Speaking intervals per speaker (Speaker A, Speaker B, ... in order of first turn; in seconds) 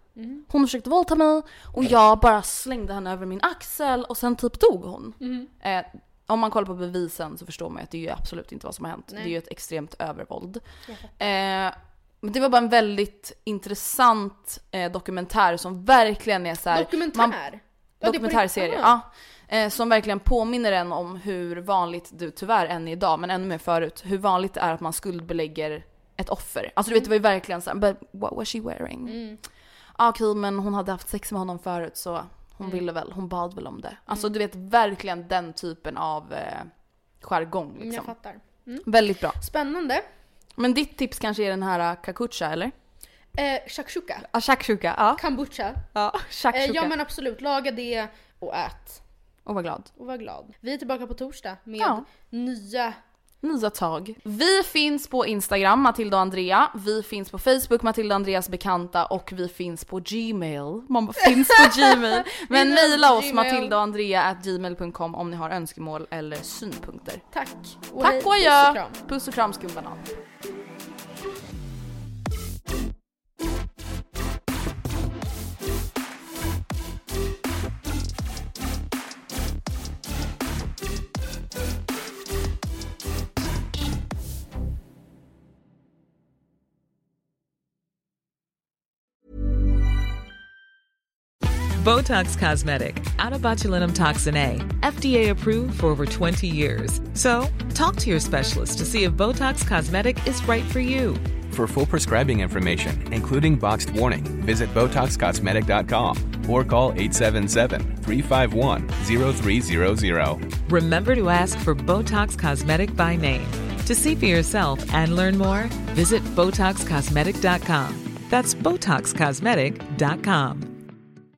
Speaker A: 0.1-0.4, 5.2-5.5, 10.9-11.2, 16.7-18.9, 29.1-29.4, 37.8-40.0, 43.4-44.3, 45.2-45.9, 46.5-49.1, 50.0-53.0, 61.5-63.8, 67.3-69.0
Speaker B: 0.5-10.6, 11.2-29.2, 29.9-38.1, 38.8-39.4, 40.6-42.7, 44.2-46.9, 49.4-49.9, 51.8-52.0, 53.4-67.2, 68.0-70.1
Speaker C: 91.8-101.2, 110.7-120.7
Speaker D: 101.5-110.4